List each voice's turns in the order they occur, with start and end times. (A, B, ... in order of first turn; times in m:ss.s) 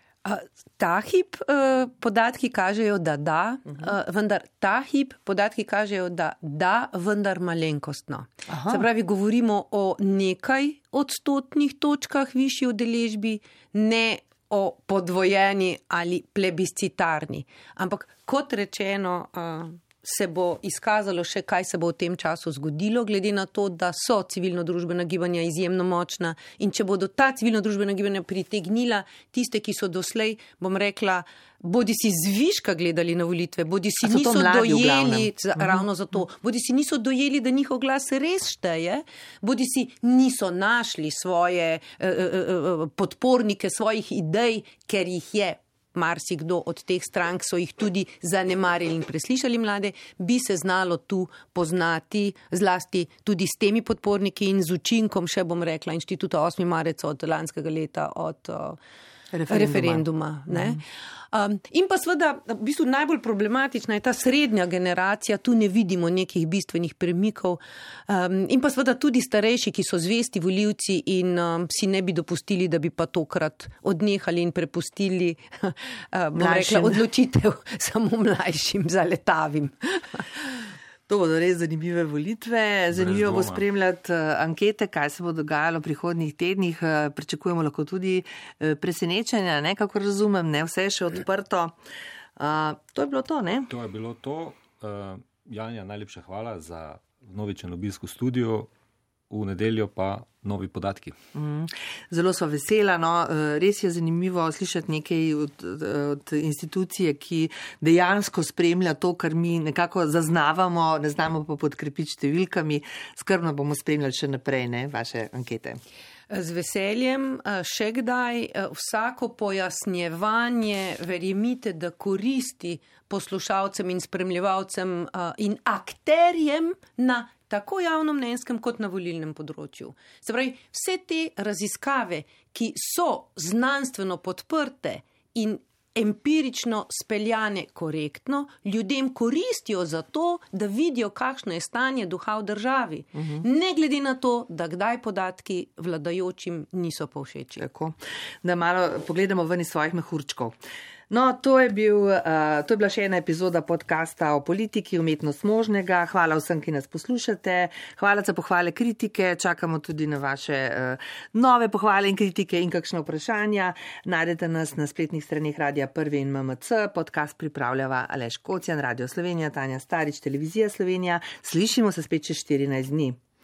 0:00.2-0:58.8 A
0:08.5-0:08.8 B
0:34.0-0:35.8 B
0:59.3-1:00.8 B
0:59.5-1:20.2 A
1:16.3-1:17.0 B
1:21.1-1:31.8 B
1:22.9-1:23.6 C
1:32.4-1:33.7 B
1:33.7-1:38.7 C
1:39.3-1:41.1 C
1:41.3-1:55.8 B
1:56.3-2:27.6 A
2:23.2-2:23.4 B
2:27.6-2:30.6 B
2:31.1-2:53.2 B